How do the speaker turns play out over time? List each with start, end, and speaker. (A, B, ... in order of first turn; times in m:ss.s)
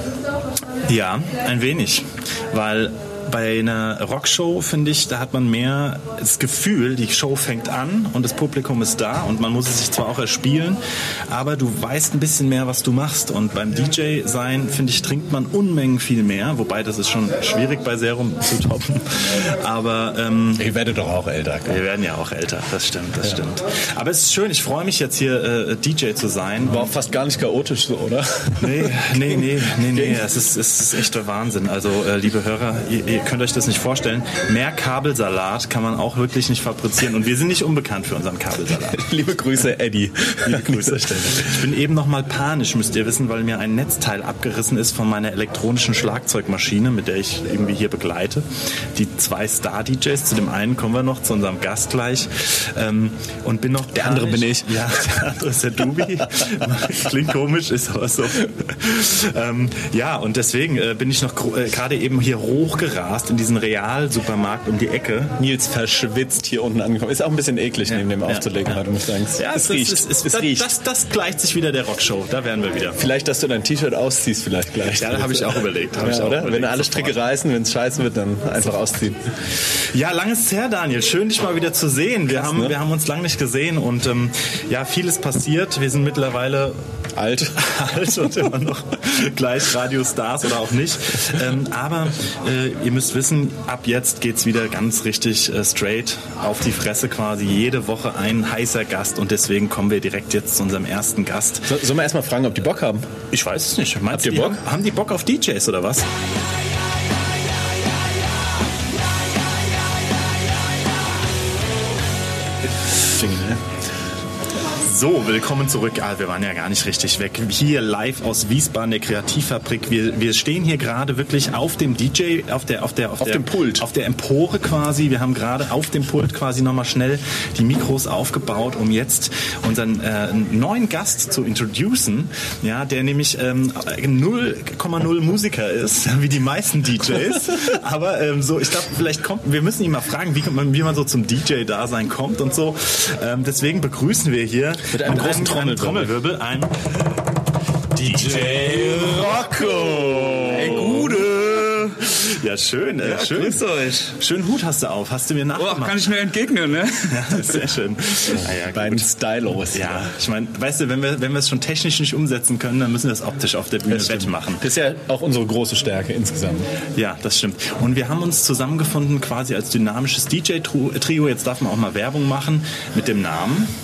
0:00.9-0:20.7 A
0:20.6-0:21.8 B
0:21.7-0:26.9 A
0:26.7-0:30.2 B
0:28.6-0:39.0 A
0:38.9-0:41.6 B
0:40.4-1:05.4 A
0:54.0-0:54.9 B
1:05.4-1:10.7 B
1:07.9-1:08.8 A
1:09.4-1:13.0 A
1:13.0-1:19.2 B
1:15.0-1:17.2 A
1:19.9-1:26.8 A
1:22.3-1:22.8 B
1:27.2-1:27.7 B
1:27.6-1:41.7 A
1:41.7-1:43.1 B
1:43.3-1:46.1 A
1:44.1-1:44.6 B
1:53.0-1:53.6 B
1:54.8-2:26.8 A
2:03.2-2:03.9 B
2:24.9-2:26.2 B
2:28.0-2:29.2 A
2:28.5-2:30.8 B
2:30.4-2:32.1 C
2:30.5-2:31.5 A
2:32.0-2:36.1 A
2:33.0-2:34.1 C
2:35.6-2:37.6 C
2:37.1-2:39.1 A
2:38.4-2:40.1 B
2:39.7-2:44.6 A
2:43.9-2:46.7 B
2:46.9-2:53.7 A